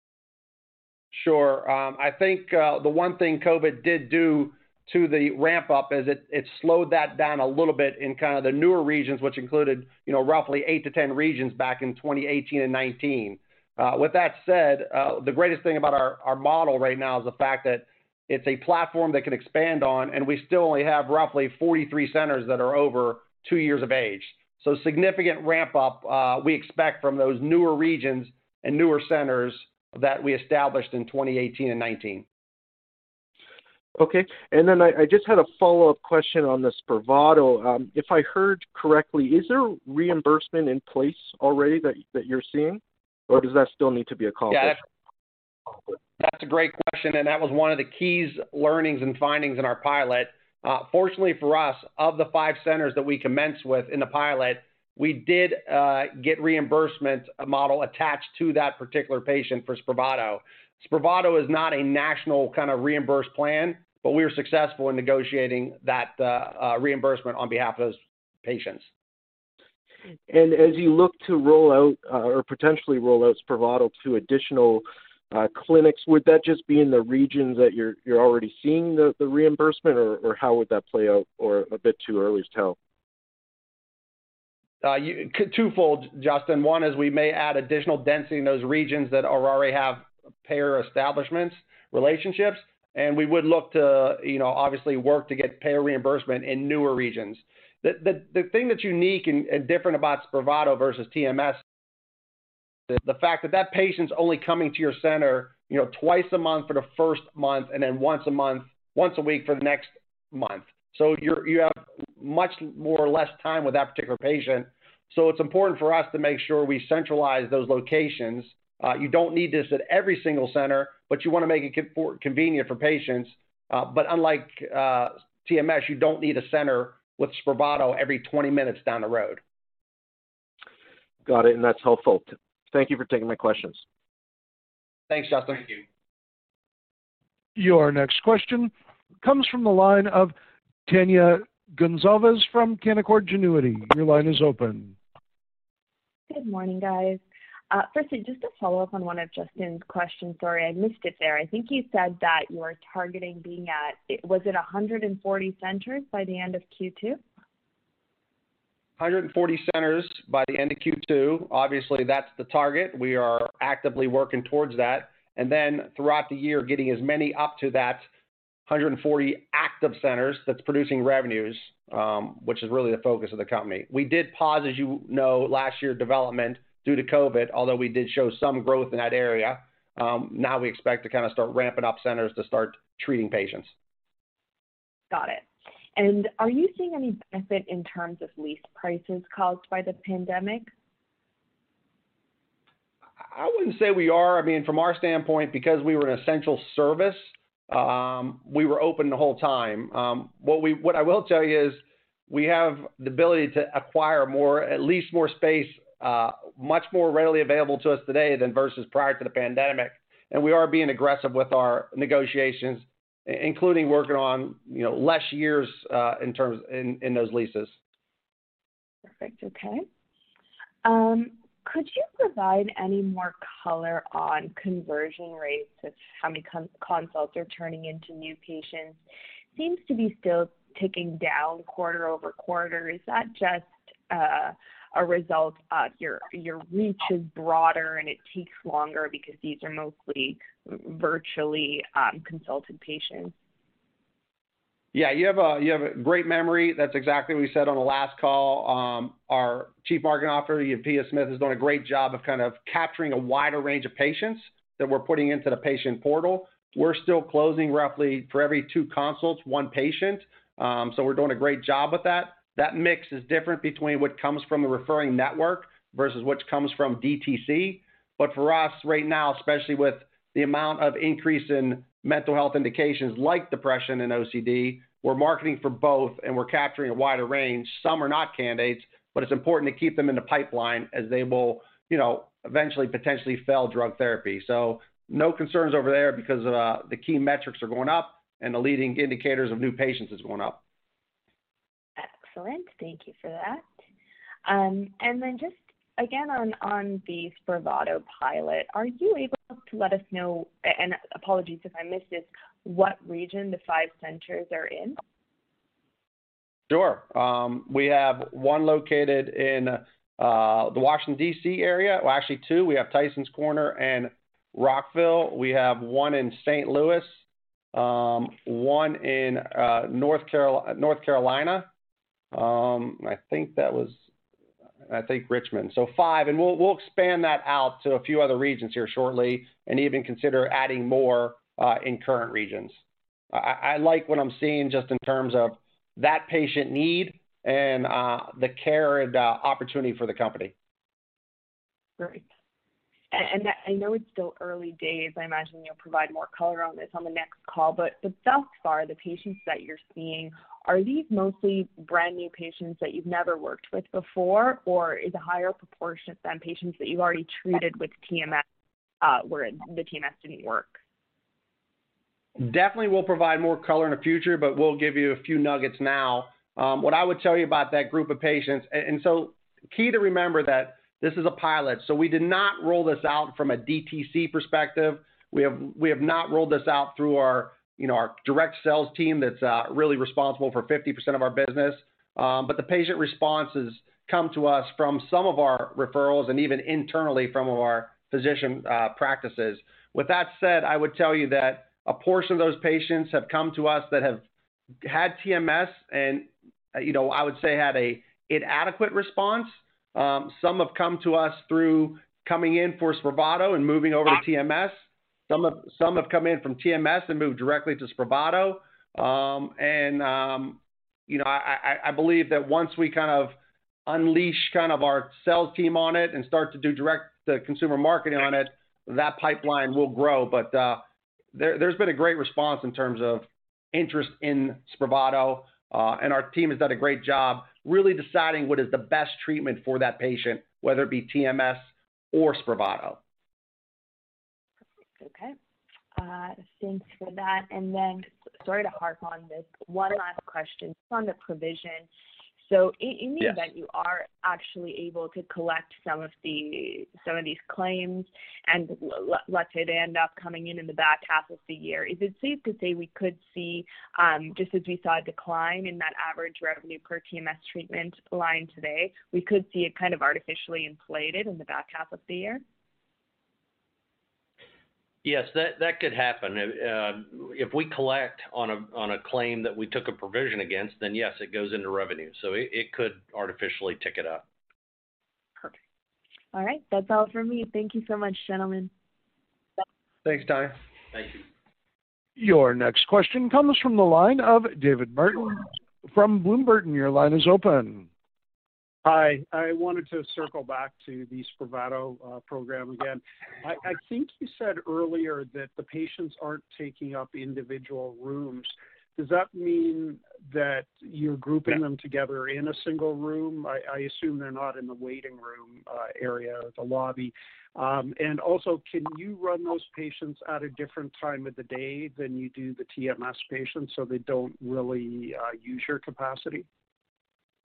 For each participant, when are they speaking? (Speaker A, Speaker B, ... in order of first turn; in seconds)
Speaker A: 1.1-32.2, 46.2-68.9, 84.8-101.6, 102.9-129.4, 135.1-135.8, 159.0-168.1, 168.7-183.7, 193.3-217.7, 244.9-290.6, 306.7-317.2, 317.7-321.7, 322.3-324.0, 324.9-332.8, 333.3-340.5, 362.4-394.2, 394.8-404.8, 405.3-420.8, 421.3-433.0, 480.1-480.6
Speaker B: 34.0-44.8, 70.3-82.8, 131.3-133.8
Speaker C: 137.6-140.3, 140.9-145.0, 482.2-487.9
Speaker D: 146.3-157.2, 185.1-185.4, 186.0-190.7, 219.1-219.8, 220.8-229.0, 229.5-243.3, 292.0-293.6, 294.4-305.0, 342.0-342.3, 343.1-358.4, 359.0-360.8, 435.0-435.4, 436.0-441.9, 442.4-462.4, 476.3-478.7
Speaker E: 465.0-474.2, 480.9-481.2
Speaker F: 488.9-516.5